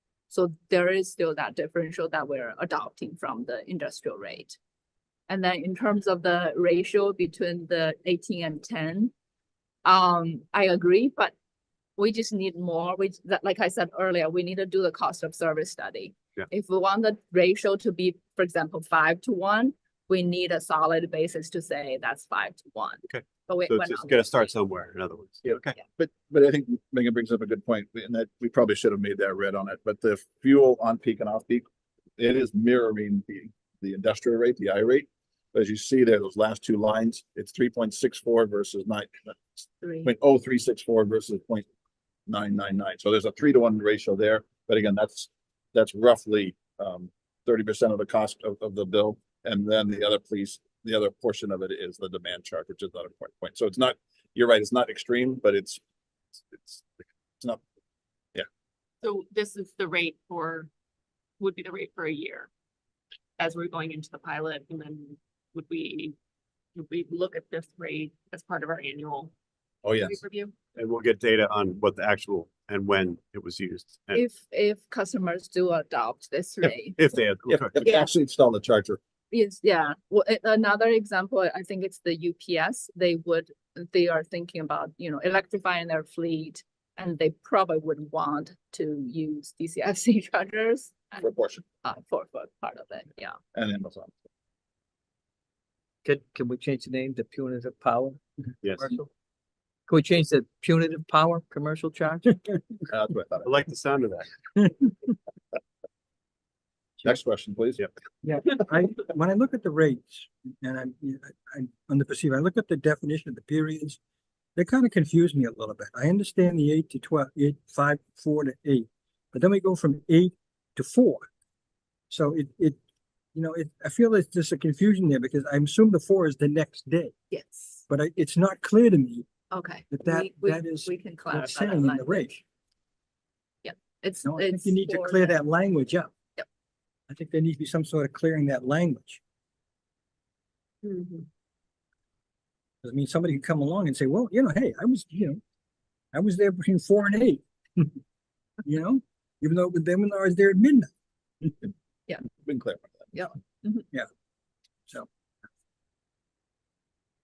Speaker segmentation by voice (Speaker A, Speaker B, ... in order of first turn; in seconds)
Speaker A: 0.3-4.6, 5.3-9.1, 9.8-11.3, 12.0-24.5, 39.8-40.1, 74.1-77.0, 79.3-91.2, 91.8-93.3, 127.3-127.8, 129.5-132.3, 133.6-135.3, 153.1-153.8
Speaker B: 23.1-25.8, 70.8-74.2, 77.0-77.7, 98.6-98.9, 103.4-104.3
Speaker C: 25.5-31.7, 32.2-41.7, 42.3-55.8, 56.5-57.6, 69.8-70.2, 77.5-79.0, 91.2-91.6, 93.5-94.2, 102.9-103.6, 107.0-107.8, 152.4-153.1
Speaker D: 59.0-60.7, 61.4-62.5, 63.4-66.2, 66.8-69.3, 70.0-70.5
Speaker E: 96.0-99.1, 99.9-102.4
Speaker F: 108.2-114.0, 114.6-121.3, 122.1-122.8, 123.3-127.1, 127.9-129.3, 129.9-132.4, 134.2-136.1, 137.1-139.2, 142.8-145.4, 146.1-148.0, 148.7-150.9